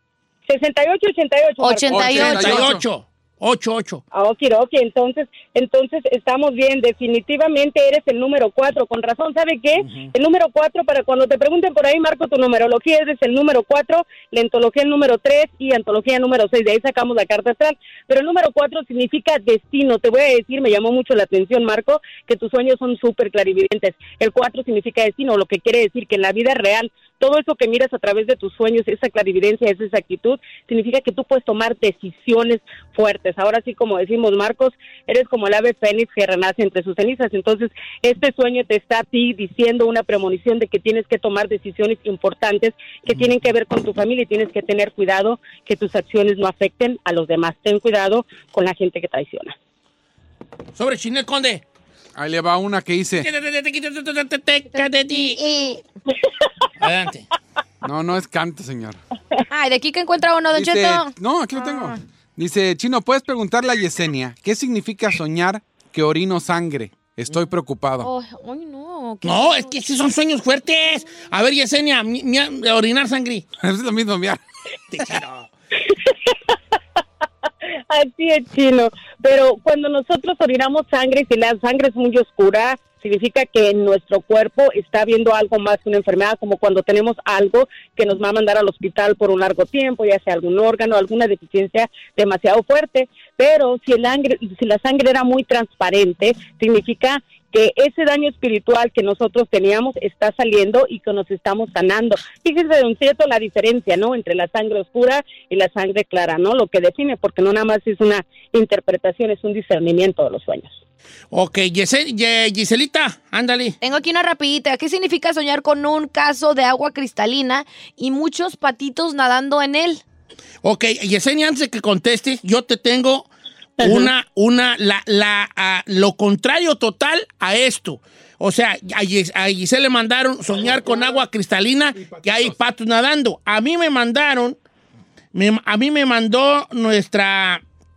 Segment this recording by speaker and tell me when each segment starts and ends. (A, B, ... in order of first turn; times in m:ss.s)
0:00.5-0:02.5 A
0:01.6-0:02.8 B
0:01.9-0:02.8 C
0:02.0-0:04.0 D
0:04.1-0:49.6 A
0:09.8-0:10.1 D
0:50.8-0:51.6 D
0:52.2-0:53.3 C
0:53.2-0:55.4 D
0:55.2-0:55.8 B
0:56.8-0:57.3 D
0:57.8-0:59.0 C
0:59.5-1:02.0 B
1:00.5-1:08.1 C
1:08.0-1:09.8 B
1:09.2-1:13.5 D
1:13.6-1:14.4 C
1:14.9-1:15.5 D
1:15.9-1:16.4 A
1:17.9-1:50.8 A
1:51.3-1:53.8 D
1:53.8-2:00.0 B
2:00.6-2:14.6 D
2:12.0-2:12.6 C
2:15.3-2:17.6 D